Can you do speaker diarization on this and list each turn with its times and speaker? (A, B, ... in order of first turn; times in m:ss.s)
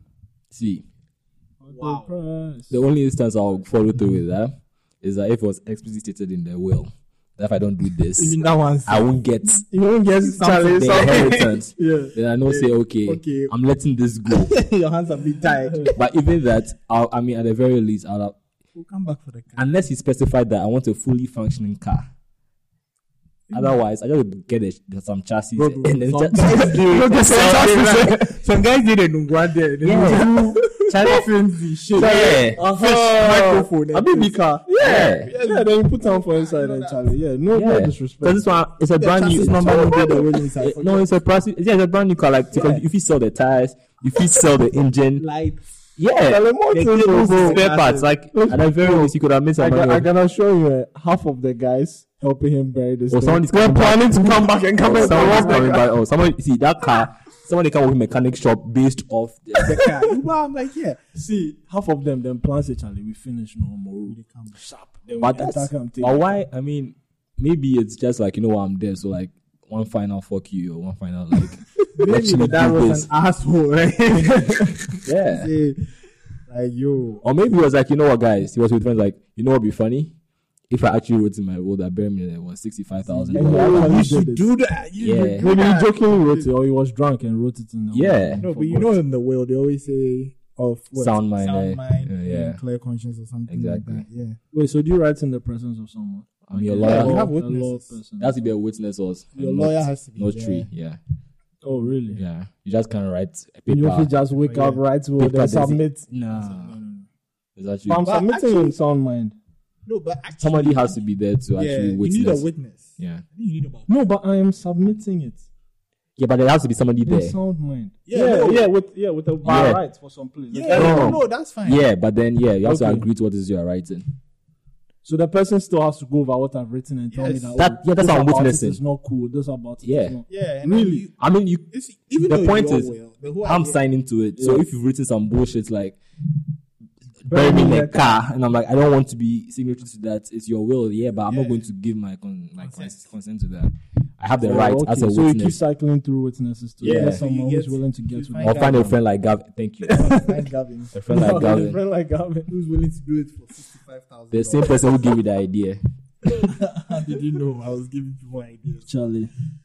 0:00.5-0:00.8 A
0:01.6-0:02.8 B
0:01.7-0:02.1 C
0:02.7-0:09.6 A
0:08.1-0:09.2 C
0:09.7-0:12.1 B
0:10.2-0:11.6 C
0:10.6-0:14.6 A
0:12.4-0:13.5 C
0:14.2-0:15.9 C
0:15.7-0:15.9 B
0:16.0-0:18.4 A
0:18.7-0:19.8 C
0:19.6-0:22.1 A
0:23.5-0:23.8 C
0:23.5-0:28.1 A
0:25.6-0:37.1 C
0:26.3-0:28.3 B
0:29.8-0:31.2 A
0:30.0-0:31.0 B
0:31.9-0:32.6 A
0:31.9-0:38.5 B
0:34.0-0:35.3 A
0:37.5-0:45.2 A
0:38.9-0:41.2 C
0:42.5-0:42.9 C
0:45.2-0:45.6 C
0:46.0-0:46.5 A
0:46.3-0:47.6 B
0:46.7-0:48.1 C
0:47.0-0:50.0 A
0:48.3-0:55.8 B
0:53.1-0:59.8 A
0:59.6-1:01.0 C
1:01.1-1:06.4 B
1:04.1-1:04.7 C
1:05.2-1:13.1 A
1:11.9-1:17.2 C
1:14.2-1:14.7 B
1:15.0-1:15.5 A
1:17.2-1:20.1 A
1:20.7-1:24.1 A
1:22.9-1:26.5 C
1:23.3-1:24.5 B
1:25.0-1:25.5 A
1:25.4-1:28.9 B
1:27.9-1:28.4 A
1:28.4-1:34.4 C
1:30.9-1:32.6 A
1:33.5-1:34.0 A
1:34.5-1:38.4 B
1:36.4-1:37.3 A
1:36.8-1:38.0 C
1:38.2-1:41.0 A
1:39.3-1:40.7 C
1:41.6-1:42.2 B
1:42.2-1:44.1 A
1:43.7-1:46.1 B
1:44.3-1:44.8 C
1:45.2-1:46.8 A
1:46.2-1:47.1 C
1:47.6-1:48.0 A
1:47.9-1:49.4 B
1:48.0-1:48.7 C
1:49.8-1:51.0 C
1:50.4-1:52.4 A
1:51.5-1:53.9 C
1:53.0-1:53.2 A
1:53.9-1:55.4 B
1:56.2-1:57.4 A
1:57.0-2:01.2 B
1:58.0-1:58.7 C
1:59.4-1:59.8 A
2:00.5-2:01.9 C
2:00.7-2:04.1 A
2:02.6-2:03.0 B
2:05.0-2:11.0 B
2:07.1-2:07.6 C
2:07.6-2:08.8 A
2:09.8-2:10.2 A
2:10.3-2:13.8 C
2:11.2-2:11.6 A
2:12.2-2:16.0 A
2:14.4-2:14.6 B
2:17.2-2:25.6 A
2:17.3-2:18.2 B
2:21.2-2:21.7 C
2:22.6-2:23.1 C
2:24.4-2:28.9 B
2:26.8-2:27.2 A
2:26.8-2:29.0 C
2:28.4-2:30.1 A
2:29.9-2:30.3 B
2:29.9-2:31.6 C
2:30.9-2:31.8 A
2:31.1-2:32.5 B
2:32.5-2:35.1 C
2:34.3-2:36.5 A
2:36.4-2:39.1 C
2:38.9-2:39.3 B